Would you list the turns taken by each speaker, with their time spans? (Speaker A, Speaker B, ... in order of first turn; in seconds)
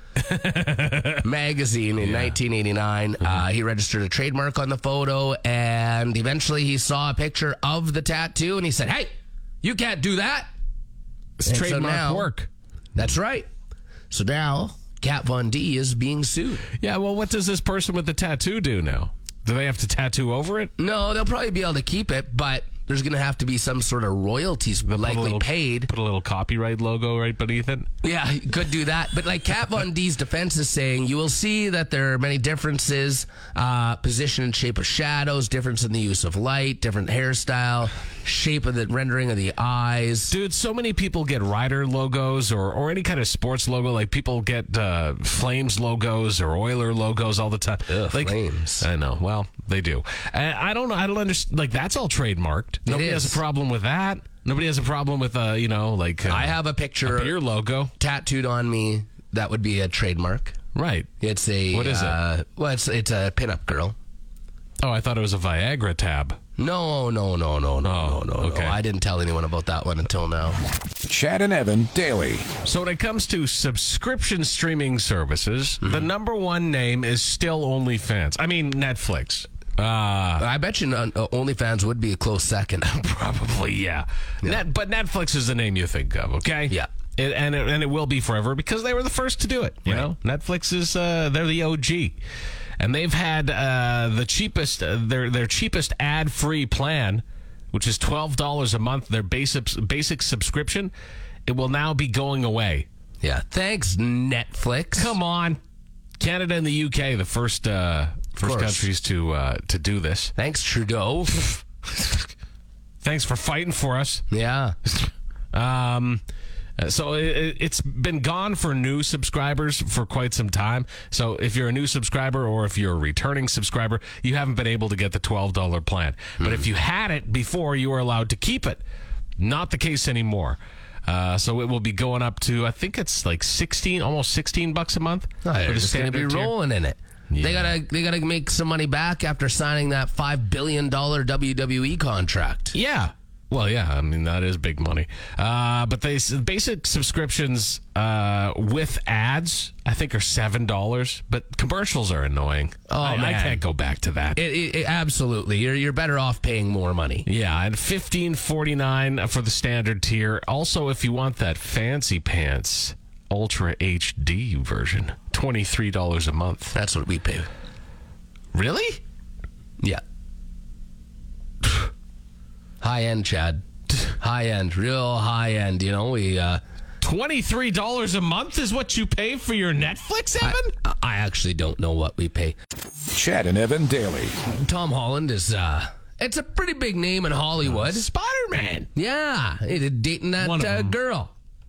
Speaker A: 0.2-1.2, 2.0-2.4, 11.4-12.5, 16.8-20.7, 24.9-27.9, 40.3-57.9, 60.7-61.1, 61.7-62.2, 64.8-66.4, 67.8-68.8, 72.6-80.4, 82.8-92.2, 92.8-100.9, 101.5-102.9, 105.0-105.6, 106.2-110.3, 113.0-114.2, 115.5-116.2, 116.8-128.8, 129.4-136.5, 137.3-137.7, 142.7-154.4, 157.2-166.7, 168.5-169.0, 177.0-180.7, 187.6-188.9, 190.4-191.0
Speaker B: 1.2-9.1, 9.6-10.5, 11.4-12.3, 12.9-13.5, 14.1-16.7, 20.8-25.9, 28.0-40.3, 47.9-48.9, 52.9-53.4, 56.2-57.4, 58.0-60.6, 61.2-64.0, 66.6-70.6, 80.4-82.9, 89.8-90.1, 103.2-105.2, 108.4-108.9, 110.3-111.5, 114.3-114.8, 126.4-126.7, 135.4-142.8, 152.9-153.6, 154.3-157.3, 166.7-167.5, 172.8-176.6, 180.4-182.6, 184.4-188.1, 188.9-191.3
Speaker C: 71.0-72.5, 183.1-184.3